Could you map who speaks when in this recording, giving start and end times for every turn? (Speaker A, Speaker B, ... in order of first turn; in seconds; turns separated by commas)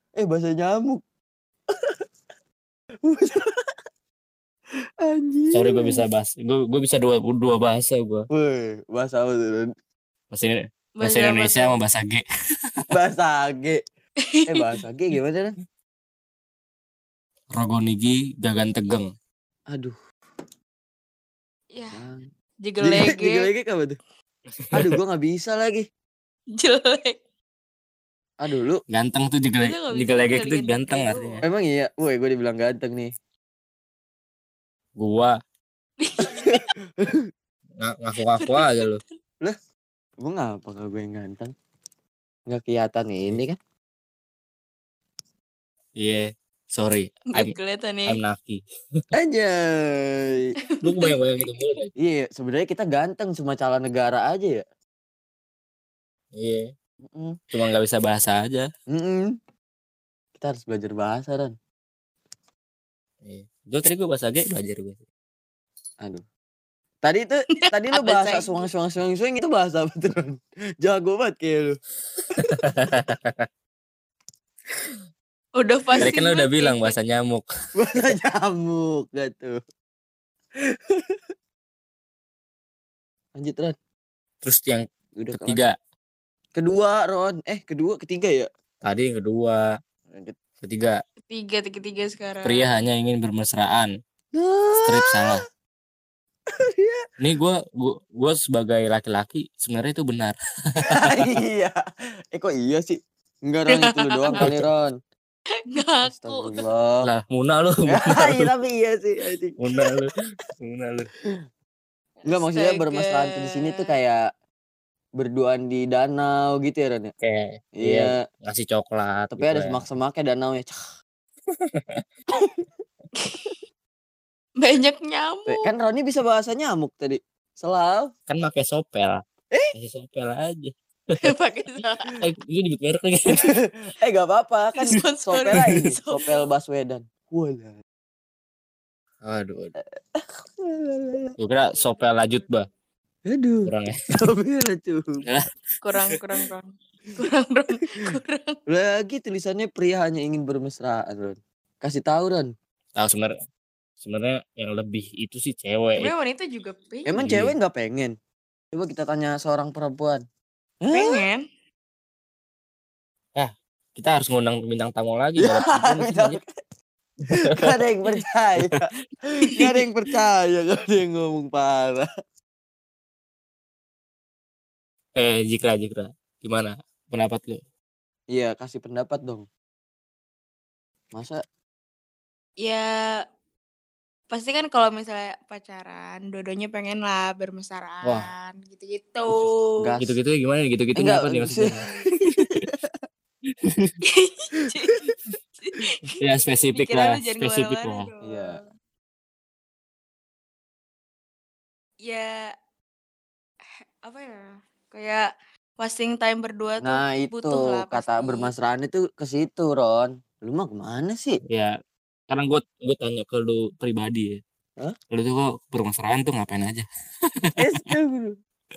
Speaker A: 0.2-1.0, Speaker A: 1.7-2.0, Speaker A: 3.0-3.7, Speaker A: 5.0-6.0, Speaker B: 5.5-8.3, Speaker A: 8.3-9.7, Speaker B: 10.3-12.8, Speaker C: 11.0-11.7, Speaker A: 12.9-13.8, Speaker C: 14.2-14.6, Speaker A: 14.5-15.6, Speaker B: 17.5-19.1, Speaker A: 19.7-20.0, Speaker C: 21.7-22.0, Speaker A: 21.9-22.3, Speaker C: 22.6-23.5, Speaker A: 22.8-24.0, Speaker B: 24.5-25.0, Speaker A: 24.7-25.9, Speaker C: 26.6-27.2, Speaker A: 28.4-28.8, Speaker B: 28.9-31.4, Speaker C: 29.6-31.4, Speaker A: 31.4-33.1, Speaker B: 35.0-35.4, Speaker C: 36.0-36.7, Speaker A: 36.2-37.2, Speaker B: 37.8-39.0, Speaker C: 38.4-39.0, Speaker A: 40.2-41.5, Speaker A: 42.5-43.6, Speaker B: 46.0-47.5, Speaker C: 47.3-48.2, Speaker B: 48.1-48.6, Speaker A: 49.1-50.5, Speaker C: 50.7-51.1, Speaker B: 50.8-51.9, Speaker A: 52.0-54.6, Speaker B: 56.3-56.7, Speaker A: 57.0-57.4, Speaker B: 57.5-58.7, Speaker A: 58.9-59.4, Speaker A: 60.4-61.5, Speaker B: 63.2-65.0, Speaker A: 67.0-71.8, Speaker C: 67.6-68.7, Speaker B: 72.4-73.5, Speaker C: 75.6-77.0, Speaker B: 76.0-77.5, Speaker A: 77.7-79.6, Speaker A: 80.7-81.2, Speaker A: 83.4-83.8, Speaker B: 84.4-85.7, Speaker A: 85.2-85.7, Speaker A: 86.6-88.5, Speaker B: 88.8-89.6, Speaker A: 90.1-90.4, Speaker B: 90.6-91.0, Speaker C: 91.3-92.7, Speaker B: 92.4-93.9, Speaker A: 94.4-95.4, Speaker B: 94.8-95.4, Speaker A: 96.5-97.0, Speaker B: 97.2-101.3, Speaker A: 100.9-101.8, Speaker A: 102.3-104.9, Speaker C: 103.7-104.5, Speaker B: 104.4-104.7, Speaker C: 105.7-106.6, Speaker A: 106.0-107.1, Speaker B: 107.0-108.5, Speaker A: 107.9-109.6, Speaker B: 109.6-111.1, Speaker C: 112.2-113.9, Speaker A: 112.3-114.2, Speaker A: 115.2-117.1, Speaker B: 117.2-119.8, Speaker A: 117.8-118.2, Speaker A: 119.3-120.8, Speaker B: 121.5-122.0, Speaker A: 122.4-122.6, Speaker C: 123.2-123.5, Speaker C: 124.6-125.7, Speaker A: 125.5-128.1, Speaker B: 128.3-129.2, Speaker B: 129.7-131.2, Speaker C: 131.2-132.2, Speaker B: 132.2-133.5, Speaker A: 133.3-137.8, Speaker C: 134.8-136.4, Speaker B: 139.2-139.7, Speaker A: 140.2-141.4, Speaker B: 141.4-142.7, Speaker C: 141.8-142.1, Speaker A: 143.3-145.2, Speaker B: 143.6-144.0, Speaker C: 145.8-148.6, Speaker A: 148.7-152.5, Speaker B: 152.9-153.3, Speaker B: 154.0-156.1, Speaker C: 155.9-157.1, Speaker A: 157.1-158.1, Speaker B: 157.2-157.5, Speaker A: 158.7-160.2, Speaker A: 160.8-161.2, Speaker C: 160.9-161.4, Speaker B: 163.3-166.4, Speaker A: 165.4-166.5, Speaker A: 167.3-172.1, Speaker B: 175.1-177.6, Speaker A: 178.3-179.4, Speaker A: 181.1-181.4, Speaker C: 182.6-183.2, Speaker C: 184.3-189.9, Speaker B: 188.0-188.3, Speaker A: 189.8-190.2, Speaker B: 190.0-192.7, Speaker A: 190.9-193.0, Speaker C: 191.7-192.1, Speaker B: 193.6-193.9, Speaker C: 194.1-195.1, Speaker A: 194.8-195.1, Speaker C: 195.6-196.1, Speaker B: 196.2-198.1, Speaker C: 196.7-198.6, Speaker A: 198.2-198.6, Speaker C: 202.0-202.5, Speaker C: 203.7-205.3, Speaker C: 205.8-208.5, Speaker A: 206.8-211.4, Speaker B: 211.5-211.7, Speaker B: 212.3-214.4, Speaker B: 215.1-216.8, Speaker A: 217.6-218.4